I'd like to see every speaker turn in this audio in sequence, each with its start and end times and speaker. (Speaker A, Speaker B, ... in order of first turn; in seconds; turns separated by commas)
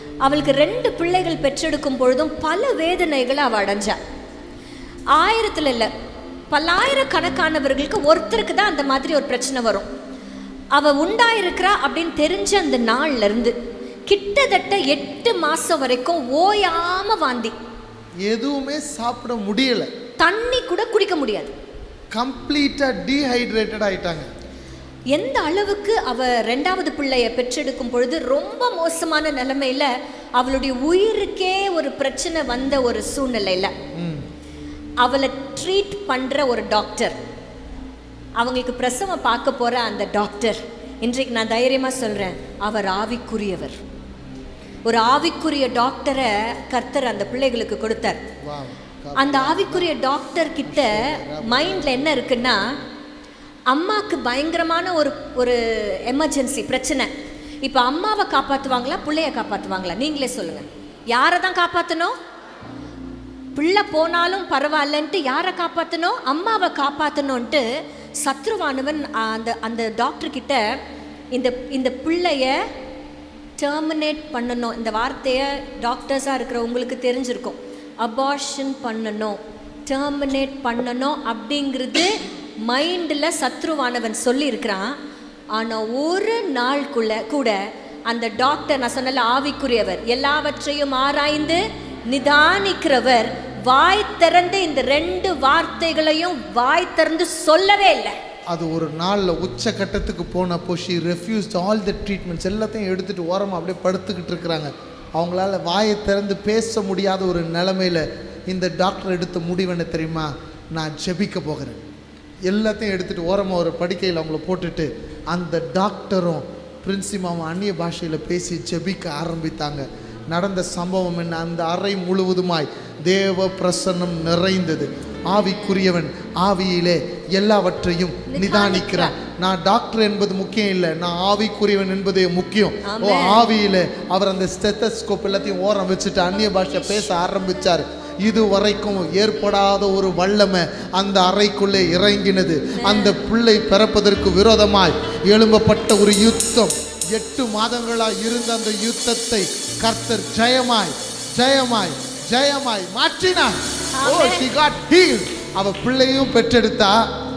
Speaker A: 0.2-4.0, Speaker A: 5.1-5.9, Speaker A: 6.5-9.9, Speaker A: 10.7-13.5, Speaker A: 14.1-17.6, Speaker B: 18.3-19.9, Speaker A: 20.2-21.5, Speaker B: 22.1-24.3, Speaker A: 25.1-33.7, Speaker B: 34.0-34.2, Speaker A: 35.0-37.2, Speaker A: 38.4-43.8, Speaker A: 44.9-48.2, Speaker B: 48.4-49.9, Speaker A: 49.2-52.6, Speaker B: 50.6-52.1, Speaker A: 53.7-57.1, Speaker A: 57.6-62.2, Speaker A: 63.5-67.6, Speaker A: 68.2-70.6, Speaker A: 71.3-72.6, Speaker A: 73.6-85.0, Speaker A: 85.5-98.2, Speaker B: 98.5-111.8, Speaker B: 112.5-157.0, Speaker A: 128.3-129.2, Speaker A: 132.8-133.5, Speaker A: 142.8-143.1, Speaker A: 154.0-154.5